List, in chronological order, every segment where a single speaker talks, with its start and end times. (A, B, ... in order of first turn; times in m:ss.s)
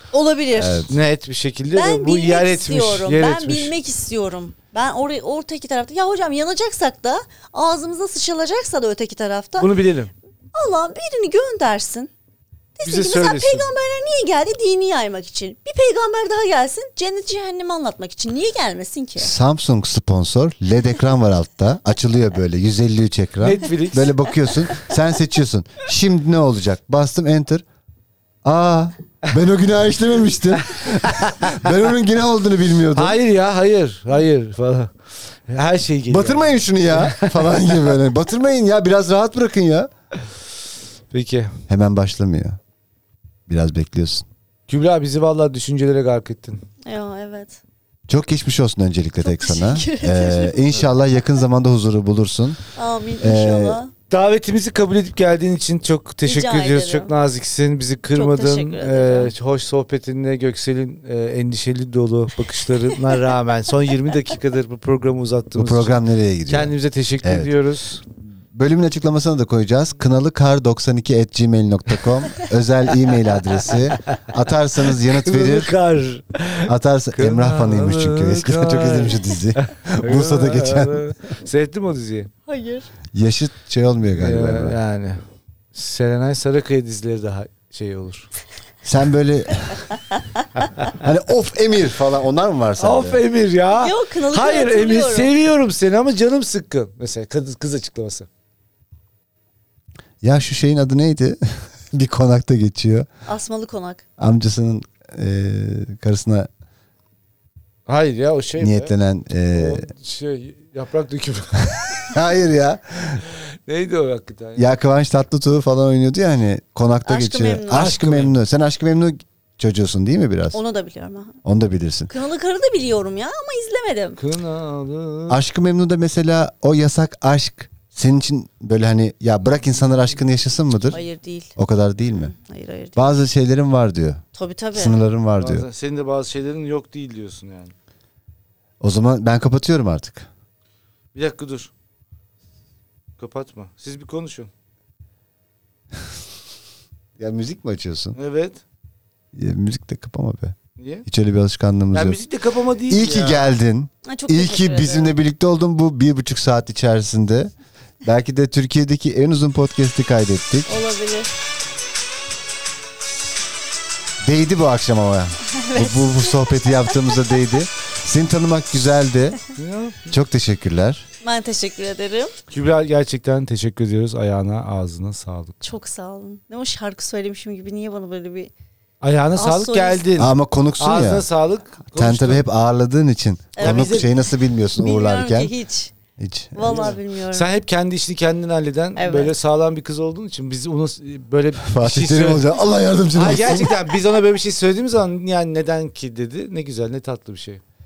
0:00.1-0:00.9 A
0:00.5-0:01.0 B
0:00.9-0:03.7 C
0:01.7-0:09.7 A
0:09.6-0:10.1 C
0:10.6-0:12.1 A
0:12.8-0:19.3 A
0:12.8-0:13.7 C
0:19.2-0:27.6 B
0:23.4-0:24.2 C
0:28.4-0:33.2 B
0:30.7-0:31.5 C
0:32.9-0:34.9 C
0:35.5-0:38.0 C
0:36.1-0:39.9 B
0:41.1-0:41.5 C
0:41.7-0:42.6 B
0:43.5-0:44.2 B
0:44.7-0:46.6 C
0:46.9-0:47.6 A
0:48.1-0:52.6 B
0:49.2-0:50.7 A
0:52.8-0:53.9 A
0:53.2-0:53.8 B
0:54.1-1:08.0 C
0:56.2-0:57.1 A
0:58.2-0:59.3 A
1:05.6-1:07.5 B
1:08.5-1:15.7 B
1:13.7-1:14.2 C
1:14.9-1:22.3 C
1:16.7-1:21.1 B
1:22.5-1:22.9 A
1:23.1-1:24.8 B
1:24.1-1:25.2 C
1:25.7-1:28.3 C
1:28.8-1:29.9 B
1:30.9-1:33.2 B
1:32.8-1:38.3 C
1:33.8-1:35.3 A
1:40.2-1:43.1 B
1:43.3-1:44.0 A
1:44.2-1:46.5 B
1:47.9-1:48.9 C
1:48.6-1:49.9 B
1:49.5-1:52.2 C
1:52.1-1:53.2 B
1:53.2-1:54.7 C
1:54.6-2:00.6 B
1:57.1-1:57.9 A
1:57.7-1:58.4 C
2:00.5-2:01.4 A
2:01.4-2:02.1 B
2:02.1-2:04.2 A
2:04.2-2:05.4 C
2:05.3-2:11.0 B
2:10.9-2:11.5 A
2:11.6-2:12.3 B
2:12.3-2:13.2 A
2:13.0-2:14.2 B
2:14.4-2:15.0 A
2:14.8-2:15.7 B
2:15.4-2:17.8 C
2:18.8-2:20.3 B
2:21.1-2:21.7 C
2:23.2-2:24.5 C
2:27.2-2:28.2 B
2:28.2-2:28.6 C
2:29.3-2:32.2 B
2:30.8-2:31.0 C
2:31.9-2:33.4 C
2:32.9-2:40.8 B
2:34.1-2:35.2 A
2:40.7-2:41.3 A
2:44.2-2:49.4 B
2:45.5-2:46.6 A
2:49.6-2:50.1 C
2:50.1-2:51.1 B
2:51.2-2:52.3 A
2:52.5-2:55.6 C
2:55.6-2:58.5 A
2:59.0-3:02.4 C
2:59.4-3:00.1 A
3:00.2-3:01.3 B
3:02.0-3:05.5 B
3:03.6-3:04.1 A
3:03.6-3:04.1 C
3:04.8-3:05.9 A
3:06.2-3:06.9 B
3:06.6-3:07.5 A
3:06.6-3:12.5 C
3:09.0-3:09.3 A
3:11.6-3:13.8 B
3:13.1-3:17.6 C